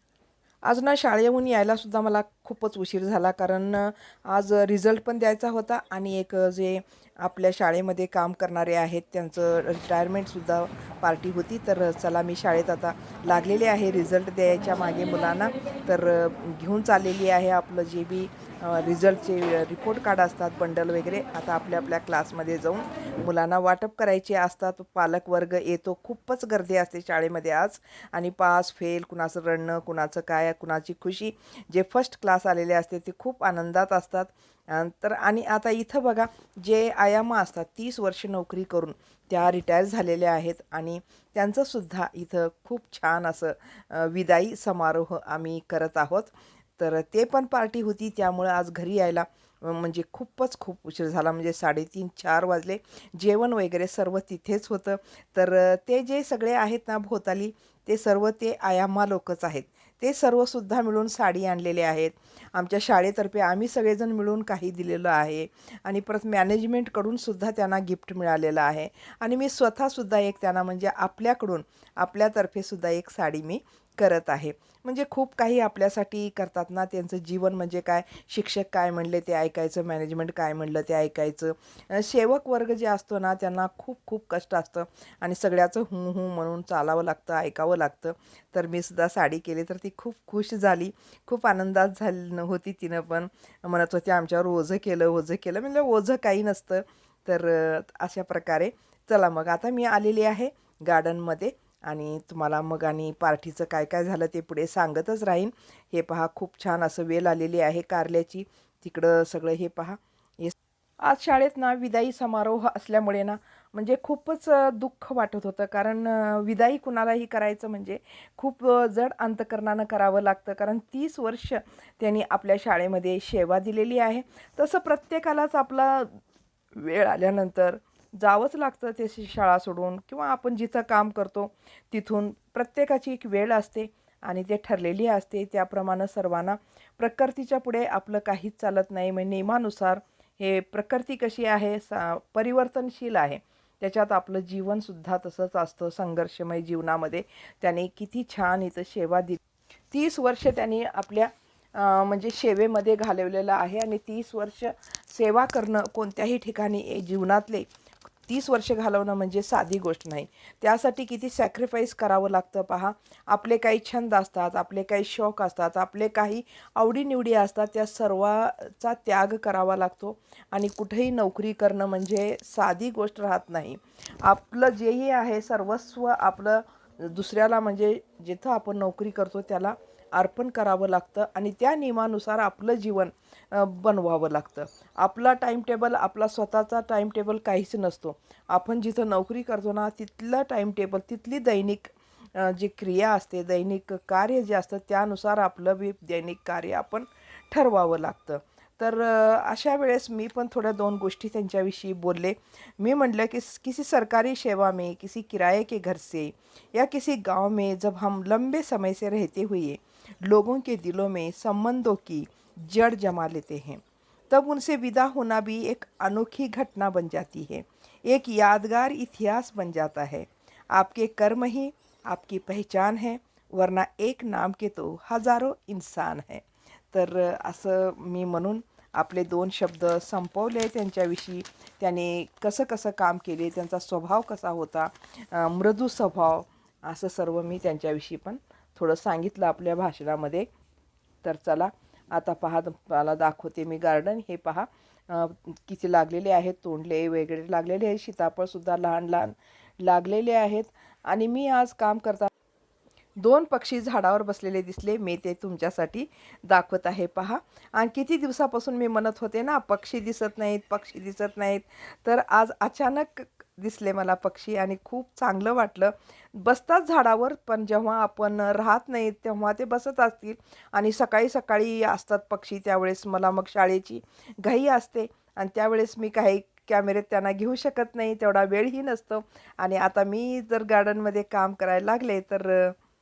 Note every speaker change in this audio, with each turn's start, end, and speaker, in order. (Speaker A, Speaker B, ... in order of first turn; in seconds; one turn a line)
Speaker A: 0.6-126.2
Speaker A: 126.7-149.4
Speaker A: 149.9-157.7
Speaker A: 158.3-240.5
Speaker A: 241.2-252.3
Speaker A: 253.2-282.8